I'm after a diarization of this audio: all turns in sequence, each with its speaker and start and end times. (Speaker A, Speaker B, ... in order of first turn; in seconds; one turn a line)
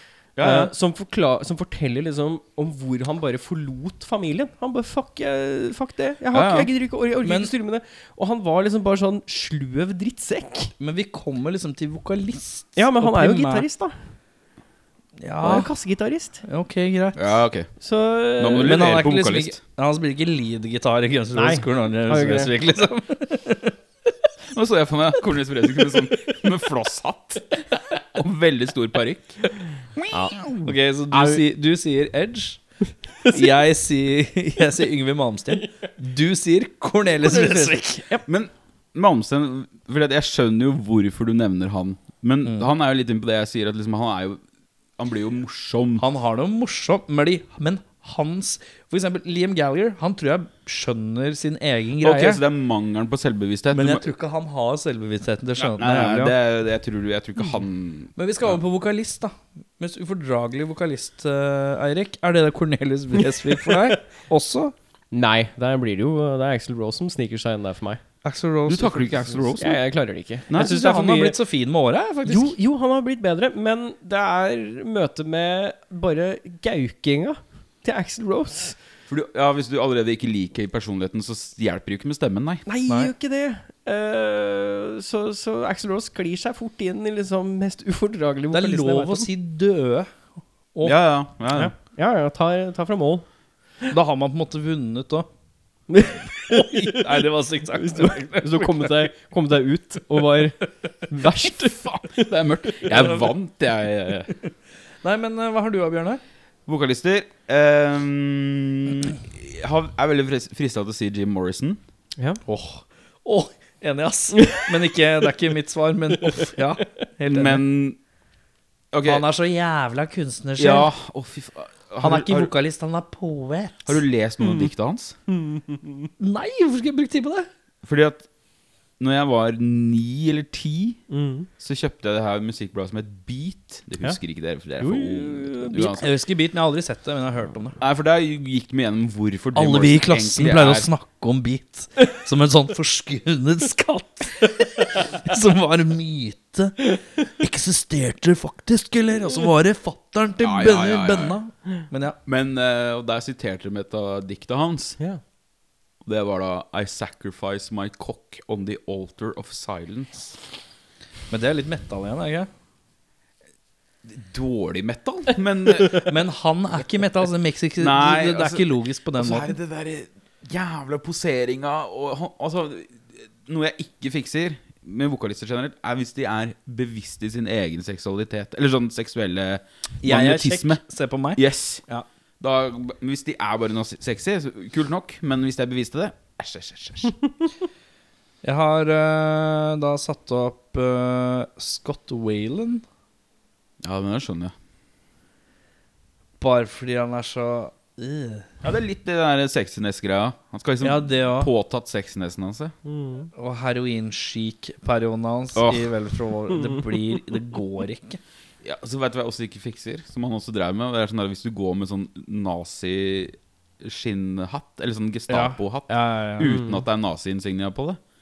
Speaker A: 0.4-0.7
Speaker B: 0.4-10.7
Speaker A: 6.3-6.7
Speaker C: 7.2-7.5
Speaker C: 10.8-13.7
Speaker B: 12.8-13.9
Speaker C: 15.2-15.7
Speaker B: 15.4-16.4
Speaker C: 16.4-17.4
Speaker A: 17.2-17.7
Speaker B: 17.8-18.8
Speaker A: 18.4-19.6
Speaker C: 18.6-23.8
Speaker B: 21.4-22.5
Speaker A: 24.5-30.6
Speaker B: 30.1-30.5
Speaker C: 30.6-32.6
Speaker C: 33.2-38.0
Speaker B: 37.2-38.3
Speaker A: 38.3-44.4
Speaker A: 45.0-46.1
Speaker C: 46.0-52.4
Speaker A: 52.0-54.0
Speaker C: 53.7-56.4
Speaker A: 55.6-58.6
Speaker C: 58.2-64.7
Speaker B: 65.1-68.0
Speaker C: 68.2-69.5
Speaker A: 68.7-69.8
Speaker B: 69.6-71.4
Speaker C: 70.5-72.6
Speaker B: 72.3-78.8
Speaker A: 79.1-82.6
Speaker B: 82.7-89.3
Speaker C: 88.5-91.0
Speaker A: 90.8-91.7
Speaker B: 91.5-93.2
Speaker C: 93.9-95.3
Speaker B: 95.9-97.2
Speaker C: 96.5-99.0
Speaker B: 97.7-102.8
Speaker A: 101.5-104.3
Speaker C: 102.9-103.2
Speaker C: 105.0-106.2
Speaker A: 106.7-111.8
Speaker C: 112.5-117.6
Speaker B: 114.4-114.7
Speaker A: 117.3-118.0
Speaker A: 118.9-119.2
Speaker C: 119.0-120.9
Speaker A: 120.6-122.5
Speaker C: 122.0-124.0
Speaker A: 123.9-125.2
Speaker B: 124.4-124.7
Speaker B: 125.3-126.1
Speaker C: 126.2-127.5
Speaker A: 127.8-128.2
Speaker A: 129.0-131.0
Speaker B: 131.1-131.5
Speaker A: 131.6-136.1
Speaker B: 134.8-136.0
Speaker C: 135.8-137.8
Speaker A: 137.8-140.9
Speaker C: 139.6-152.2
Speaker A: 150.4-151.3
Speaker A: 152.3-155.0
Speaker A: 156.0-160.4
Speaker C: 161.3-162.5
Speaker A: 164.1-166.1
Speaker C: 165.9-169.5
Speaker A: 167.8-180.8
Speaker C: 180.0-182.1
Speaker A: 181.4-181.8
Speaker A: 182.4-187.2
Speaker C: 188.4-192.8
Speaker A: 193.8-194.5
Speaker C: 196.4-198.5
Speaker A: 198.6-202.7
Speaker C: 200.8-201.5
Speaker B: 202.9-203.3
Speaker C: 203.3-208.2
Speaker A: 205.6-205.9
Speaker A: 208.6-218.0
Speaker C: 215.3-216.6